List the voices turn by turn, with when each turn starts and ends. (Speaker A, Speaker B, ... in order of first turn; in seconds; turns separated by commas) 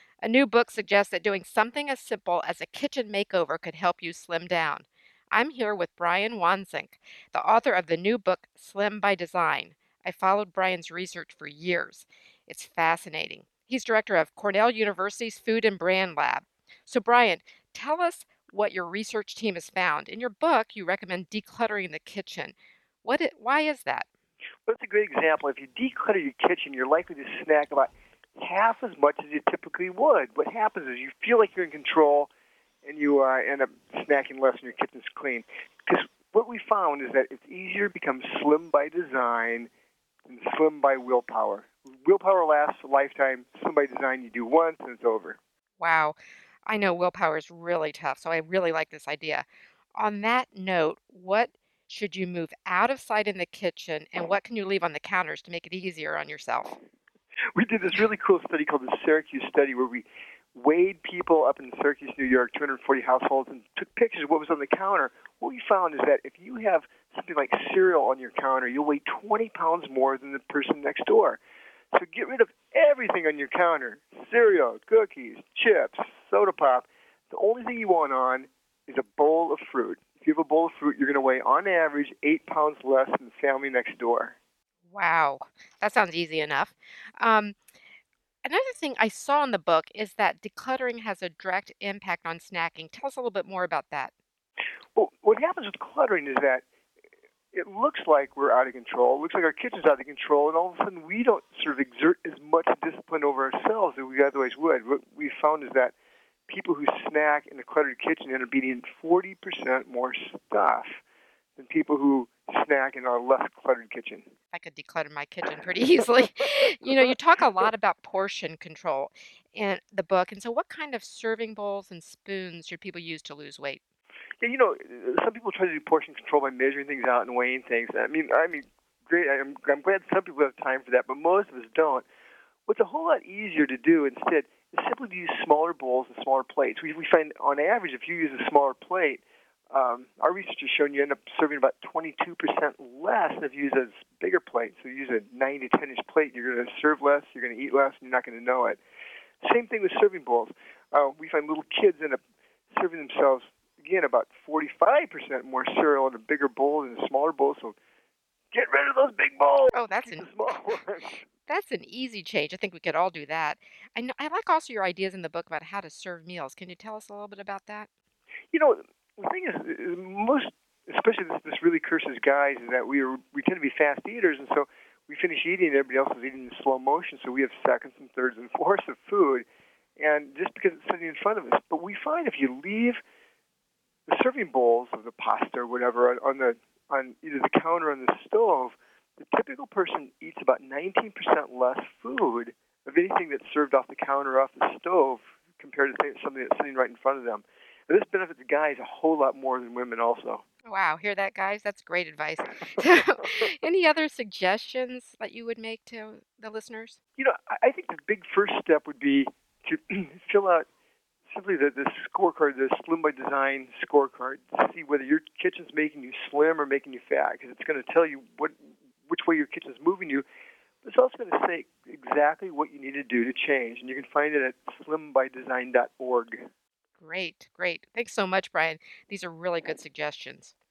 Speaker A: 0.2-24.1, Speaker B: 24.7-32.3, Speaker B: 32.8-39.7, Speaker B: 40.3-45.4, Speaker A: 45.8-56.8, Speaker B: 57.5-71.4, Speaker B: 71.9-84.4, Speaker A: 84.9-87.6, Speaker A: 88.5-94.1, Speaker B: 95.0-96.7, Speaker B: 97.5-106.0, Speaker B: 106.5-111.0, Speaker B: 111.6-114.3, Speaker A: 114.5-123.8, Speaker B: 116.8-117.2, Speaker B: 124.4-132.1, Speaker B: 132.7-148.8, Speaker B: 149.4-152.2, Speaker B: 152.7-157.8, Speaker B: 158.5-161.2, Speaker A: 159.7-160.6, Speaker A: 161.5-167.9, Speaker B: 168.5-183.0, Speaker B: 184.1-200.4, Speaker A: 200.7-207.0, Speaker B: 202.7-203.3, Speaker B: 207.2-210.7, Speaker B: 211.3-218.6, Speaker B: 219.1-220.2, Speaker B: 220.8-226.4, Speaker A: 227.0-230.5